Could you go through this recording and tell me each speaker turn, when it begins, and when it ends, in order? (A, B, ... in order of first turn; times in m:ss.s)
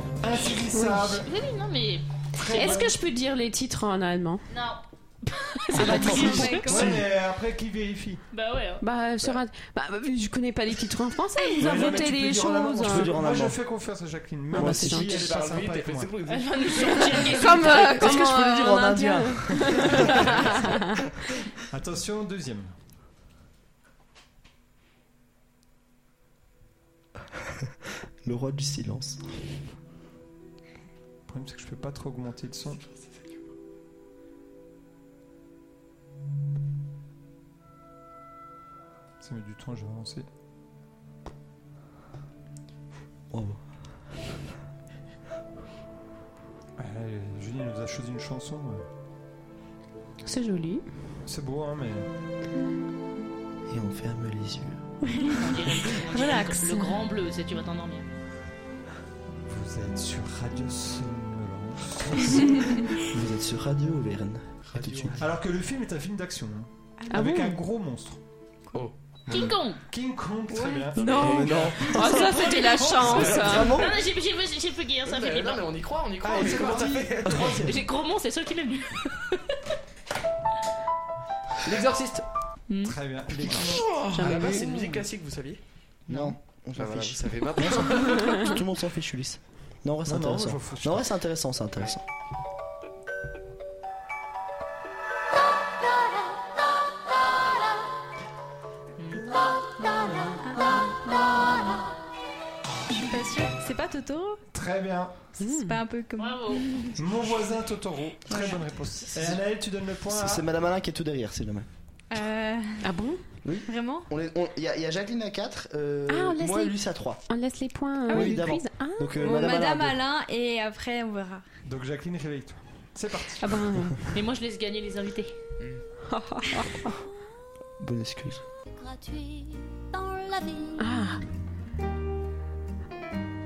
0:00.2-0:01.3 A
0:00.7-0:01.2 B
0:01.2-0:02.0 C
0:02.3-0:03.0 A
0:02.5-0:04.4 B
0:04.5-0:06.7 C
0:05.8-0:06.6 B
0:05.8-0:07.0 D
0:05.8-0:07.0 E
0:05.9-0:08.2 A
0:08.3-0:08.8 C
0:08.8-0:13.2 B
0:11.4-0:11.8 E
0:11.6-0:16.1 A
0:12.8-0:13.6 D
0:14.5-0:15.3 B
0:14.5-0:15.1 D
0:15.0-0:17.6 F
0:16.3-0:18.1 C
0:17.1-0:21.0 B
0:17.9-0:20.6 D
0:20.3-0:20.6 F
0:21.7-0:22.7 A
0:28.2-0:29.2 D
0:31.3-0:32.8 A
0:39.2-0:40.2 A
0:43.3-0:43.6 D
0:46.8-0:48.8 A
0:50.2-0:50.8 B
0:51.2-0:52.1 A
0:53.7-0:54.8 D
0:55.2-0:57.0 B
0:55.3-0:58.1 C
0:59.5-1:02.8 A
1:03.0-1:05.2 D
1:04.6-1:05.2 F
1:05.1-1:08.2 A
1:07.1-1:07.6 B
1:09.3-1:13.5 A
1:09.3-1:09.8 C
1:10.5-1:10.9 E
1:10.9-1:13.8 B
1:11.0-1:11.9 F
1:11.4-1:14.0 D
1:12.4-1:15.7 C
1:13.0-1:13.6 F
1:15.0-1:17.6 F
1:16.2-1:17.8 A
1:17.4-1:19.4 C
1:21.6-1:22.2 F
1:22.7-1:22.9 C
1:22.8-1:24.6 A
1:23.4-1:25.6 F
1:24.1-1:24.7 B
1:26.1-1:32.0 D
1:26.8-1:28.6 F
1:30.0-1:31.1 A
1:39.0-1:39.2 C
1:40.5-1:40.8 E
1:42.9-1:44.4 E
1:44.5-1:45.2 A
1:45.4-1:45.8 B
1:45.4-1:47.0 E
1:46.2-1:46.7 C
1:47.0-1:50.4 A
1:48.3-1:48.6 E
1:50.1-1:51.7 D
1:52.1-1:52.9 E
1:52.8-1:53.2 B
1:53.4-1:57.2 D
1:53.6-1:54.1 E
1:56.1-1:56.8 B
1:57.3-1:59.2 B
1:58.1-1:58.4 E
1:58.1-2:00.0 D
1:59.2-2:01.4 E
2:01.6-2:03.6 A
2:03.4-2:04.0 B
2:04.1-2:05.3 C
2:06.1-2:07.0 B
2:07.8-2:08.4 D
2:08.7-2:10.9 G
2:10.8-2:11.2 B